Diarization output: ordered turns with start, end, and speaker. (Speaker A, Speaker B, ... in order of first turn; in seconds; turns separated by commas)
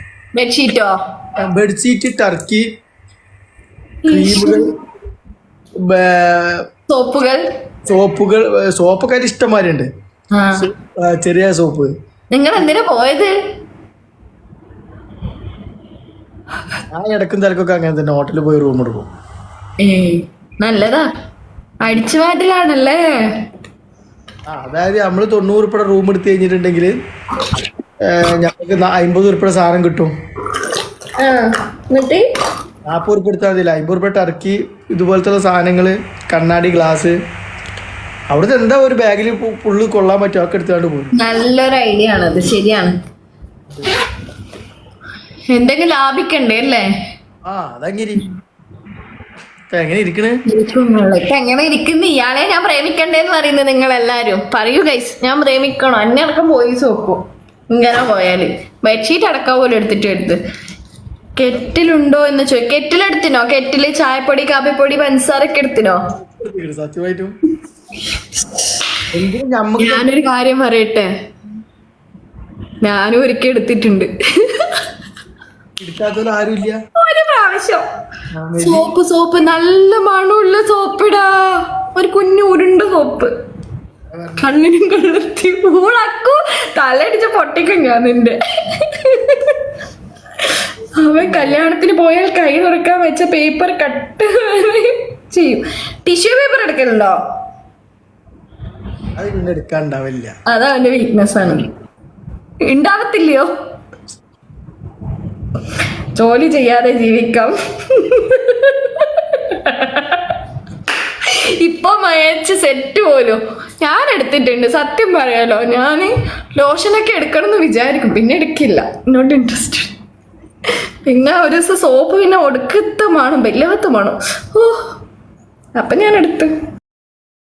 Speaker A: 0.3-0.9, Speaker B: 1.4-2.6, Speaker A: 4.0-4.6, Speaker B: 4.1-4.7, Speaker B: 5.8-6.6, Speaker A: 6.9-7.4, Speaker B: 7.9-9.9, Speaker A: 10.3-10.6, Speaker B: 10.6-11.9, Speaker A: 12.3-13.3, Speaker B: 16.9-19.1, Speaker A: 19.8-21.1, Speaker A: 21.8-23.0, Speaker B: 24.5-26.9, Speaker B: 28.1-30.1, Speaker A: 31.2-32.2, Speaker B: 32.9-37.1, Speaker B: 38.3-41.1, Speaker A: 41.1-42.9, Speaker A: 45.5-46.9, Speaker B: 47.5-48.3, Speaker B: 49.7-50.4, Speaker A: 50.5-57.2, Speaker A: 57.7-60.4, Speaker A: 61.4-66.0, Speaker B: 66.4-67.3, Speaker A: 68.1-69.0, Speaker B: 69.1-70.0, Speaker A: 69.8-71.1, Speaker A: 72.8-74.9, Speaker B: 75.8-76.8, Speaker A: 77.0-77.8, Speaker B: 78.3-78.9, Speaker A: 78.6-83.3, Speaker B: 84.1-84.6, Speaker A: 84.4-89.8, Speaker A: 90.4-97.2, Speaker B: 91.2-91.6, Speaker B: 99.2-100.3, Speaker A: 100.5-101.7, Speaker A: 102.6-103.5, Speaker A: 105.7-110.4, Speaker A: 111.2-119.9, Speaker A: 120.7-125.0, Speaker A: 125.8-126.5